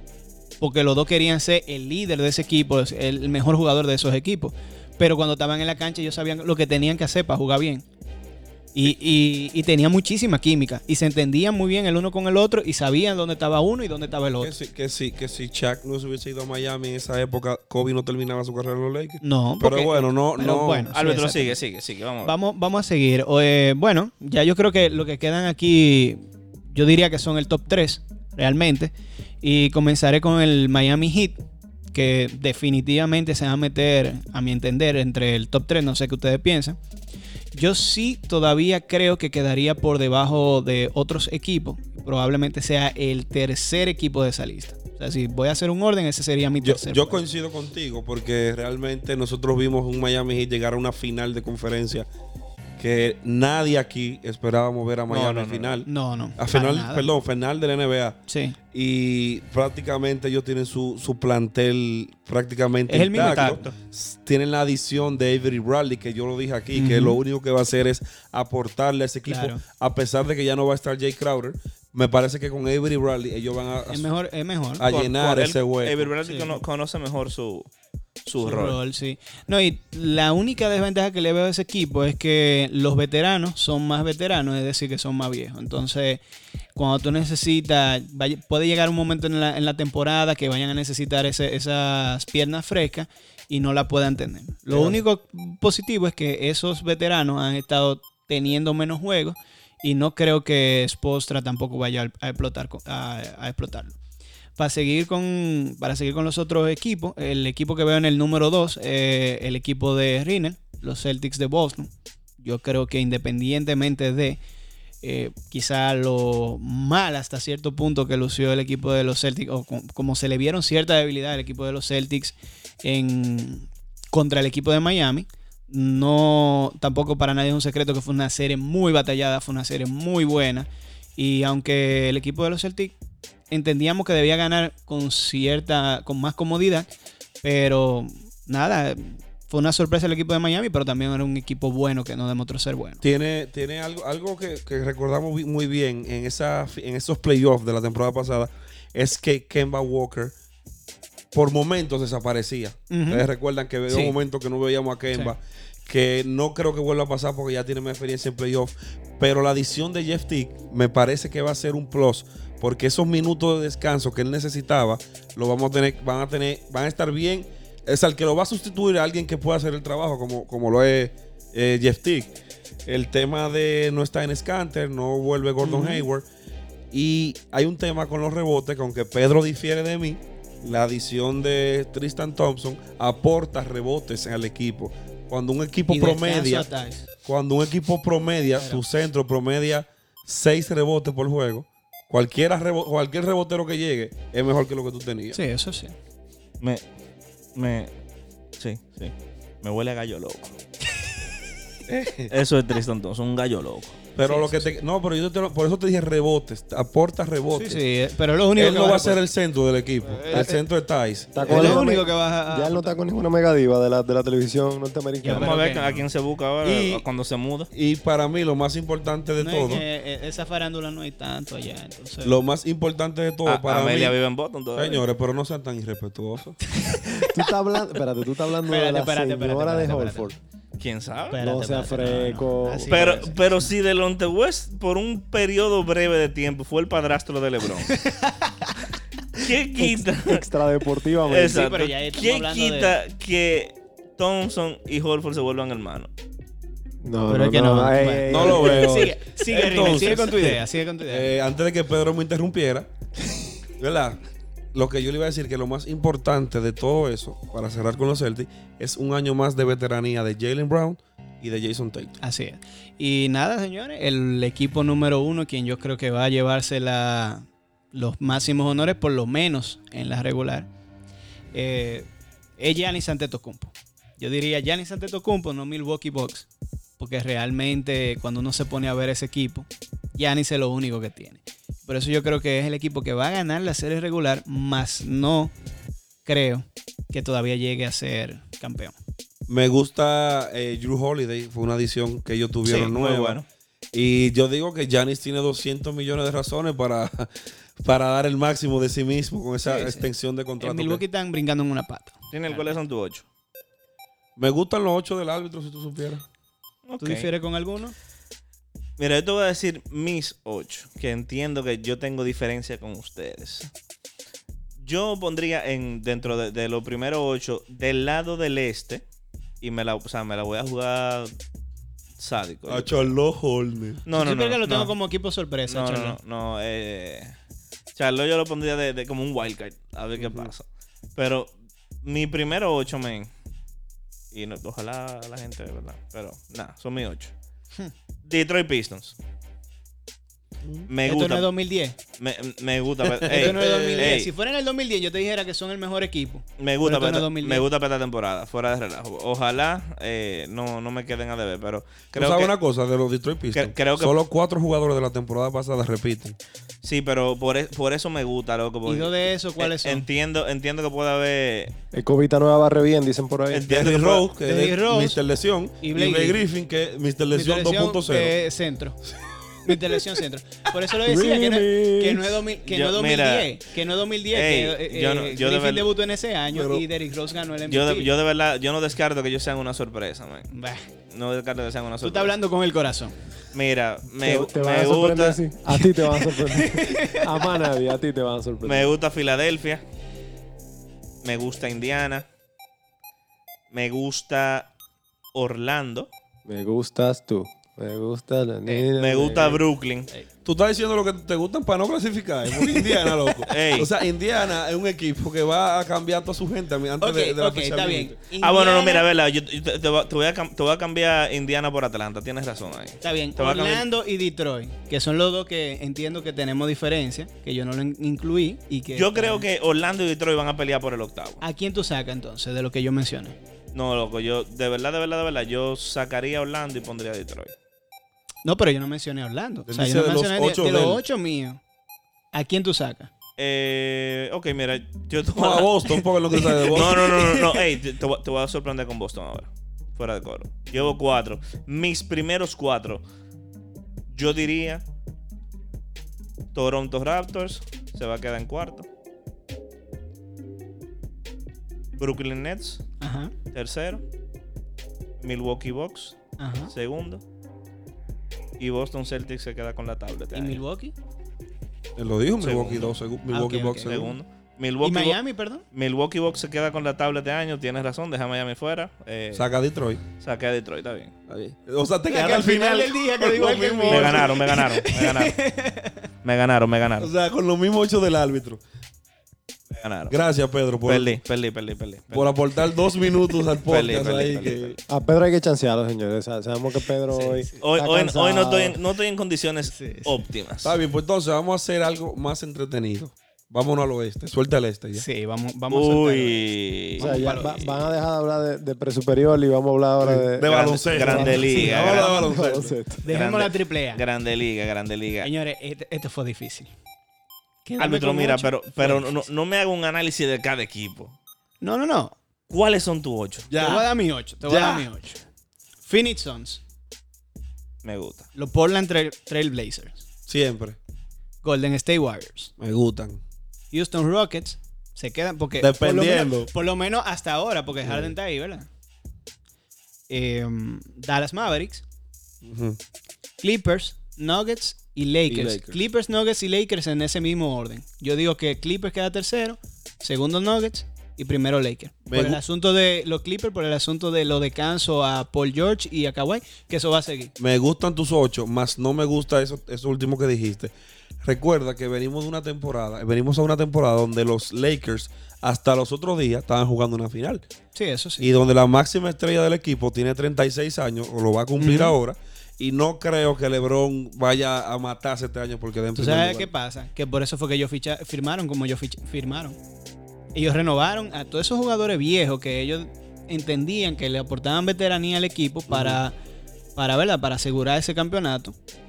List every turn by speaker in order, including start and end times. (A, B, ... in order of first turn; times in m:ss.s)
0:00.6-0:07.8 A
0:08.7-0:14.5 A
0:14.4-0:20.9 B
0:19.2-0:21.6 A
0:20.9-0:22.3 C
0:22.2-0:31.4 A
0:31.9-0:36.8 A
0:37.5-0:47.2 A
0:46.6-0:52.1 B
0:52.8-0:58.2 B
0:55.1-0:55.8 C
0:55.8-0:57.1 A
0:58.3-0:58.6 A
0:58.7-1:14.1 B
1:02.9-1:03.6 A
1:03.1-1:03.8 C
1:06.7-1:07.2 A
1:09.2-1:09.6 A
1:13.9-1:14.8 A
1:14.8-1:16.1 B
1:14.8-1:17.7 C
1:16.2-1:16.6 A
1:18.2-1:18.8 C
1:18.4-1:26.2 A
1:26.8-1:44.0 A
1:34.7-1:35.0 B
1:44.6-1:54.4 A
1:55.0-2:12.9 A
2:13.5-2:16.9 A
2:17.4-2:23.0 A
2:23.0-2:30.3 B
2:31.3-2:52.3 B
2:32.9-2:33.3 A
2:33.9-2:34.1 A
2:52.8-2:56.2 B
2:55.6-2:56.1 A
2:56.9-3:06.7 B
3:05.9-3:07.0 A
3:07.2-3:15.4 B
3:15.3-3:16.0 A
3:17.5-3:17.9 C
3:18.6-3:20.6 C
3:21.9-3:22.3 B
3:22.3-3:24.0 C
3:24.2-3:27.8 B
3:24.2-3:24.7 A
3:27.5-3:29.2 A
3:28.5-3:31.8 B
3:30.0-3:30.6 A
3:31.3-3:35.6 D
3:31.4-3:33.0 A
3:35.2-3:36.0 A
3:35.3-3:37.7 C
3:36.6-3:37.0 B
3:37.7-3:39.8 B
3:39.4-3:42.4 A
3:42.2-3:44.2 B
3:43.4-3:45.0 C
3:44.8-3:46.6 B
3:46.8-3:47.5 A
3:47.1-3:50.4 D
3:48.6-3:50.3 A
3:50.8-3:51.4 C
3:51.3-3:53.7 A
3:51.4-3:53.1 D
3:52.9-3:57.9 C
3:57.9-3:58.8 A
3:59.4-4:00.4 C
3:59.8-4:01.7 D
4:01.2-4:06.1 C
4:01.4-4:03.0 A
4:07.0-4:09.1 D
4:07.3-4:11.3 A
4:08.3-4:12.9 B
4:13.6-4:14.2 B
4:14.7-4:22.2 B
4:22.2-4:30.7 A
4:31.5-4:36.5 A
4:37.0-4:45.5 A
4:46.2-4:48.9 A
4:49.5-4:53.4 B
4:52.6-4:53.4 C
4:53.9-5:01.0 B
4:59.6-5:00.1 A
5:00.6-5:02.8 A
5:02.3-5:03.2 C
5:04.4-5:06.2 B
5:06.8-5:07.3 C
5:07.0-5:07.9 A
5:09.0-5:13.7 C
5:14.8-5:19.0 C
5:19.6-5:21.3 C
5:22.2-5:23.1 C
5:22.7-5:24.0 B
5:24.0-5:24.9 C
5:24.1-5:26.2 A
5:25.7-5:27.3 C
5:27.9-5:31.5 C
5:30.2-5:30.5 B
5:32.0-5:33.3 C
5:34.3-5:37.3 C
5:38.2-5:39.2 C
5:40.6-5:40.9 B
5:40.9-5:41.5 C
5:41.0-5:42.0 A
5:42.2-5:44.3 C
5:43.0-5:44.2 B
5:43.3-5:47.7 A
5:46.6-5:52.5 C
5:52.1-5:56.4 B
5:53.5-5:54.1 C
5:56.8-6:01.7 C
5:58.8-6:00.0 A
6:01.9-6:03.7 D
6:03.5-6:04.3 C
6:03.6-6:08.3 B
6:04.4-6:05.2 A
6:05.8-6:06.4 A
6:07.3-6:09.0 A
6:09.6-6:18.1 A
6:09.7-6:10.0 B
6:11.0-6:12.4 D
6:12.7-6:13.5 C
6:14.3-6:15.9 C
6:16.5-6:16.9 B
6:17.6-6:20.5 C
6:20.5-6:20.8 A
6:21.1-6:22.3 C
6:22.0-6:23.1 A
6:23.5-6:25.4 C
6:24.2-6:28.9 D
6:25.9-6:27.5 A
6:28.6-6:29.8 C
6:31.2-6:32.3 C
6:33.7-6:34.7 C
6:35.3-6:36.1 C
6:36.4-6:39.6 D
6:38.9-6:40.1 C
6:40.4-6:48.1 B
6:42.6-6:43.4 A
6:43.5-6:43.9 C
6:47.0-6:49.0 A
6:48.4-6:53.8 C
6:53.0-6:59.5 A
6:58.9-7:01.4 C
7:01.4-7:03.4 A
7:03.7-7:07.5 C
7:08.4-7:11.6 A
7:09.7-7:11.0 B
7:12.3-7:13.1 A
7:13.4-7:16.0 C
7:15.4-7:17.2 B
7:16.3-7:17.6 A
7:16.7-7:23.0 C
7:24.1-7:24.8 C
7:26.5-7:28.9 C
7:32.0-7:32.8 C
7:33.0-7:33.3 A
7:33.5-7:34.0 C
7:35.2-7:37.2 C
7:36.4-7:36.7 A
7:38.6-7:40.6 C
7:40.3-7:40.9 A
7:42.0-7:44.1 B
7:42.4-7:42.9 C
7:43.3-7:44.0 A
7:43.8-7:45.2 C
7:44.8-7:45.6 A
7:45.7-7:49.5 C
7:49.3-7:50.0 B
7:50.2-7:51.1 C
7:51.3-7:54.4 B
7:52.1-7:56.0 A
7:53.9-7:55.4 C
7:56.2-7:57.1 C
7:57.0-7:58.6 B
7:59.7-8:00.2 C
8:00.1-8:01.2 B
8:00.8-8:02.4 C
8:02.1-8:04.8 B
8:03.6-8:04.8 C
8:04.9-8:08.8 D
8:07.1-8:07.6 A
8:07.6-8:10.7 C
8:09.7-8:10.2 A
8:10.6-8:15.0 B
8:14.9-8:16.4 A
8:15.7-8:17.3 C
8:17.0-8:17.8 A
8:17.0-8:23.0 D
8:20.0-8:22.7 B
8:20.5-8:22.2 C
8:21.0-8:22.5 A
8:23.0-8:24.0 A
8:23.1-8:25.3 C
8:25.2-8:26.7 A
8:27.6-8:29.2 A
8:27.8-8:31.1 C
8:31.6-8:32.1 A
8:32.5-8:33.5 C
8:33.5-8:33.9 B
8:33.6-8:35.2 A
8:34.4-8:34.9 B
8:35.8-8:36.6 A
8:37.8-8:38.2 C
8:38.3-8:40.0 A
8:40.3-8:40.8 B
8:41.4-8:42.5 A
8:42.6-8:43.2 B
8:43.7-8:48.7 A
8:45.6-8:46.5 B
8:47.8-8:48.1 B
8:50.1-8:51.8 A
8:52.4-8:52.8 B
8:53.4-9:07.3 A
8:55.3-8:55.8 B
9:02.1-9:02.4 B
9:07.4-9:10.7 B
9:11.2-9:17.4 B
9:17.7-9:18.3 A
9:18.2-9:26.5 B
9:21.6-9:22.0 A
9:25.9-9:29.6 A
9:30.3-9:36.1 A
9:35.7-9:36.0 B
9:36.8-9:38.6 A